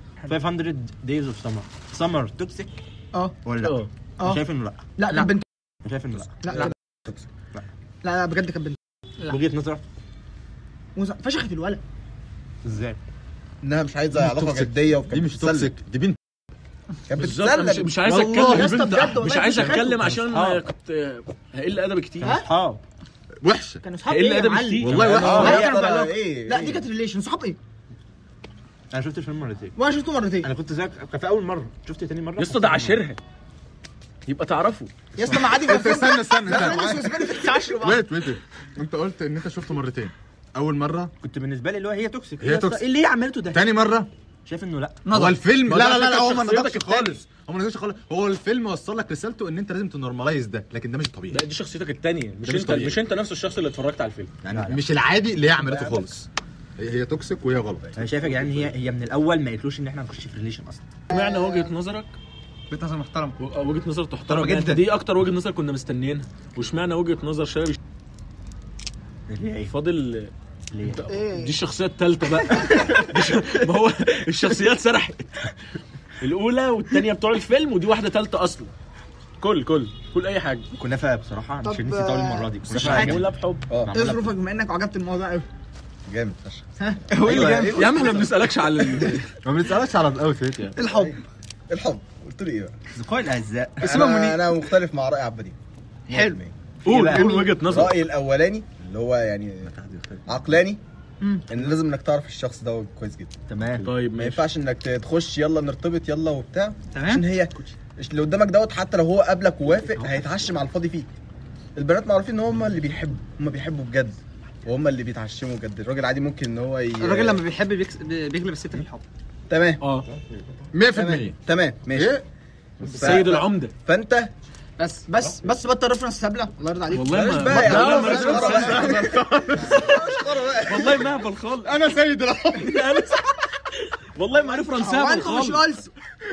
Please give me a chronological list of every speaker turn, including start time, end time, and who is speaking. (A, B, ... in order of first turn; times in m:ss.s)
0:00.2-0:02.8 A
0:03.4-0:05.3 A
0:03.6-0:03.9 B
0:04.2-0:04.4 C
0:05.0-0:05.4 C
0:05.8-0:06.4 A
0:06.4-0:06.7 C
0:06.5-0:07.2 D
0:08.0-0:08.8 C
0:09.2-0:09.8 A
0:11.0-0:11.8 C
0:12.6-0:13.0 A
0:13.6-0:15.7 D
0:14.1-0:16.2 E
0:17.1-0:18.1 D
0:17.2-0:22.4 B
0:18.0-0:20.0 C
0:18.3-0:18.9 E
0:20.0-0:20.6 A
0:22.2-0:22.8 A
0:23.4-0:23.8 E
0:23.8-0:27.6 C
0:24.1-0:25.5 B
0:24.8-0:25.6 E
0:24.9-0:26.8 D
0:25.0-0:25.8 A
0:28.9-0:29.8 A
0:29.8-0:30.5 C
0:30.4-0:33.0 A
0:32.4-0:33.2 B
0:34.2-0:34.9 B
0:35.2-0:38.1 C
0:35.3-0:41.1 E
0:41.2-0:43.6 A
0:42.4-0:42.8 E
0:43.5-0:44.1 E
0:44.4-0:45.0 A
0:45.0-0:45.4 F
0:45.1-0:51.4 E
0:45.6-0:47.2 B
0:51.3-0:54.3 B
0:52.4-0:53.0 E
0:54.4-0:56.3 E
0:54.5-0:54.8 A
0:55.6-0:56.0 D
0:56.8-0:58.0 E
0:58.0-1:00.8 A
1:01.1-1:01.6 C
1:01.1-1:02.1 B
1:02.7-1:03.4 F
1:03.4-1:07.8 B
1:09.3-1:09.7 A
1:09.7-1:10.3 B
1:10.7-1:11.1 A
1:10.8-1:15.5 B
1:11.1-1:11.5 C
1:16.2-1:18.7 B
1:19.4-1:20.6 B
1:20.8-1:24.3 A
1:21.6-1:23.1 C
1:22.7-1:23.2 E
1:22.7-1:23.6 B
1:23.9-1:25.5 C
1:26.1-1:28.5 D
1:26.8-1:27.2 C
1:27.1-1:27.9 F
1:27.3-1:29.3 B
1:29.4-1:30.7 E
1:30.8-1:31.2 F
1:30.8-1:32.7 D
1:32.9-1:33.9 A
1:33.8-1:35.6 D
1:33.9-1:34.4 F
1:36.1-1:39.7 D
1:36.1-1:36.4 F
1:36.8-1:38.0 B
1:36.9-1:37.3 A
1:39.7-1:40.3 E
1:40.3-1:40.8 D
1:41.5-1:43.4 D
1:43.5-1:43.9 A
1:43.8-1:44.4 B
1:44.1-1:51.1 D
1:46.9-1:47.2 F
1:49.9-1:50.2 A
1:51.8-1:57.4 D
1:57.0-1:59.0 F
1:59.5-1:59.8 D
1:59.8-2:00.1 B
2:00.7-2:01.4 E
2:00.9-2:02.2 D
2:01.9-2:02.2 E
2:02.8-2:03.3 E
2:02.8-2:04.3 D
2:02.9-2:03.7 B
2:04.8-2:05.1 F
2:05.0-2:09.0 C
2:06.9-2:09.2 B
2:07.1-2:11.1 D
2:07.5-2:10.1 E
2:10.5-2:11.8 B
2:11.6-2:13.2 E
2:12.5-2:15.7 B
2:14.5-2:15.9 C